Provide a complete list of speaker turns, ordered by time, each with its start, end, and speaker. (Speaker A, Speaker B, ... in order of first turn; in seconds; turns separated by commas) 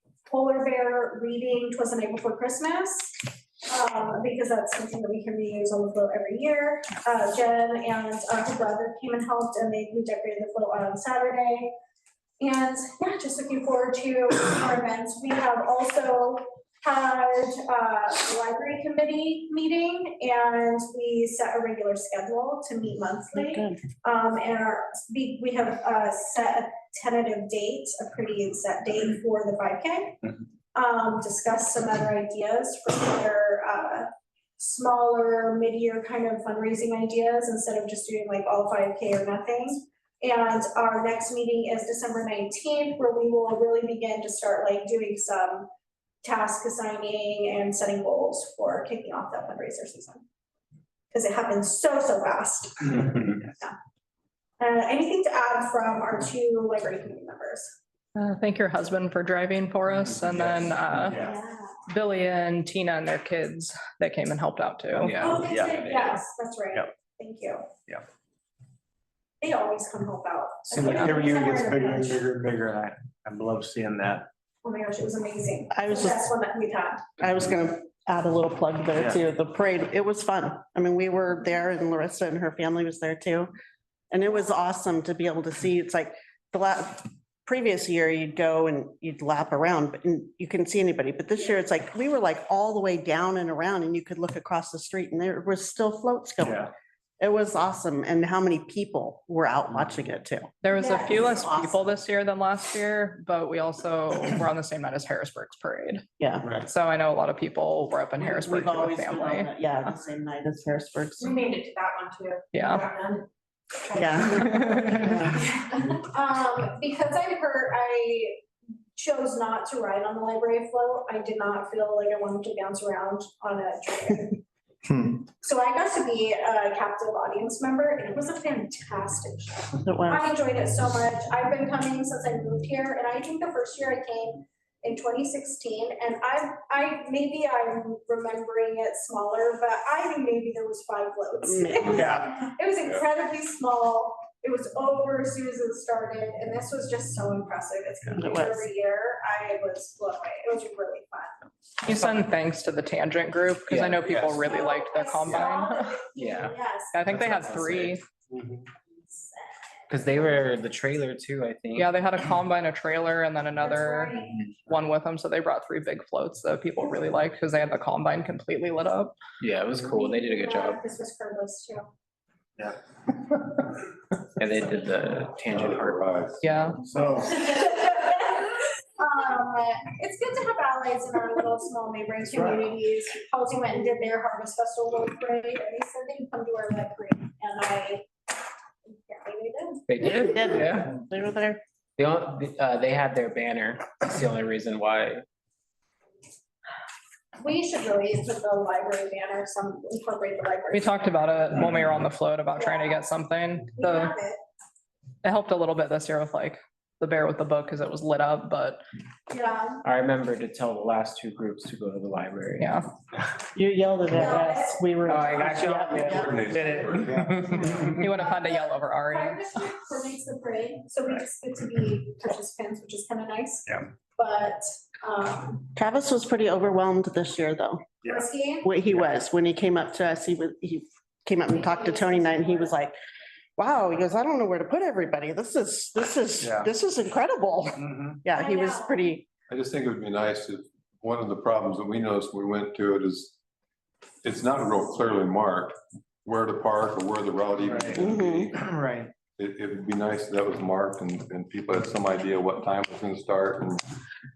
Speaker A: 0.3-11.7, Speaker A: 12.4-30.2, Speaker B: 23.3-23.8, Speaker A: 30.7-45.7, Speaker A: 46.2-50.2, Speaker A: 51.1-53.7, Speaker A: 54.6-57.8, Speaker C: 58.1-61.2, Speaker D: 60.4-61.3, Speaker A: 61.2-61.7, Speaker C: 61.9-65.4, Speaker E: 65.0-66.1, Speaker A: 65.2-67.7, Speaker D: 65.4-65.7, Speaker A: 69.4-72.2, Speaker D: 70.7-74.3, Speaker C: 70.8-71.1, Speaker A: 74.6-77.0, Speaker B: 75.7-76.2, Speaker B: 77.2-83.5, Speaker B: 84.1-96.7, Speaker B: 97.2-102.0, Speaker C: 100.6-106.0, Speaker A: 100.7-101.3, Speaker B: 106.2-106.5, Speaker C: 106.6-109.5, Speaker B: 108.2-111.4, Speaker F: 111.2-113.2, Speaker C: 112.5-112.8, Speaker F: 113.9-115.3, Speaker B: 113.9-115.4, Speaker C: 114.4-114.9, Speaker A: 115.9-118.4, Speaker A: 119.0-124.4, Speaker A: 125.0-151.4, Speaker B: 129.8-130.2, Speaker B: 141.4-142.3, Speaker D: 142.0-142.2, Speaker B: 148.1-148.6, Speaker C: 151.8-156.0, Speaker E: 153.7-154.1, Speaker G: 154.1-154.4, Speaker A: 154.4-157.1, Speaker E: 156.2-158.0, Speaker C: 156.9-158.0, Speaker A: 159.1-159.5, Speaker E: 159.9-161.9, Speaker C: 161.8-164.1, Speaker A: 163.6-164.4, Speaker C: 164.7-169.1, Speaker E: 169.4-170.8, Speaker A: 169.8-171.9, Speaker E: 174.4-176.1, Speaker G: 175.5-177.0, Speaker C: 176.4-176.8, Speaker D: 176.9-177.4, Speaker A: 177.0-188.1, Speaker A: 188.9-189.8, Speaker E: 189.9-190.9, Speaker B: 190.0-191.6, Speaker E: 192.1-195.2, Speaker A: 197.4-201.0, Speaker C: 200.7-204.1, Speaker A: 202.6-203.1, Speaker A: 203.8-204.4, Speaker C: 205.2-208.8, Speaker A: 209.3-209.8, Speaker E: 209.9-212.7, Speaker C: 212.6-212.8, Speaker B: 213.5-216.4, Speaker A: 214.1-214.8, Speaker E: 215.1-217.9, Speaker G: 215.6-217.7, Speaker C: 217.9-219.5, Speaker A: 218.2-225.7, Speaker B: 225.7-227.8, Speaker A: 228.0-228.7, Speaker B: 228.6-232.9, Speaker A: 231.5-232.7, Speaker B: 233.6-239.2, Speaker D: 237.8-238.2, Speaker A: 238.3-239.1, Speaker G: 239.5-243.3, Speaker G: 244.2-248.6, Speaker D: 247.6-248.0, Speaker B: 248.0-248.5, Speaker D: 248.7-249.0, Speaker G: 249.3-253.8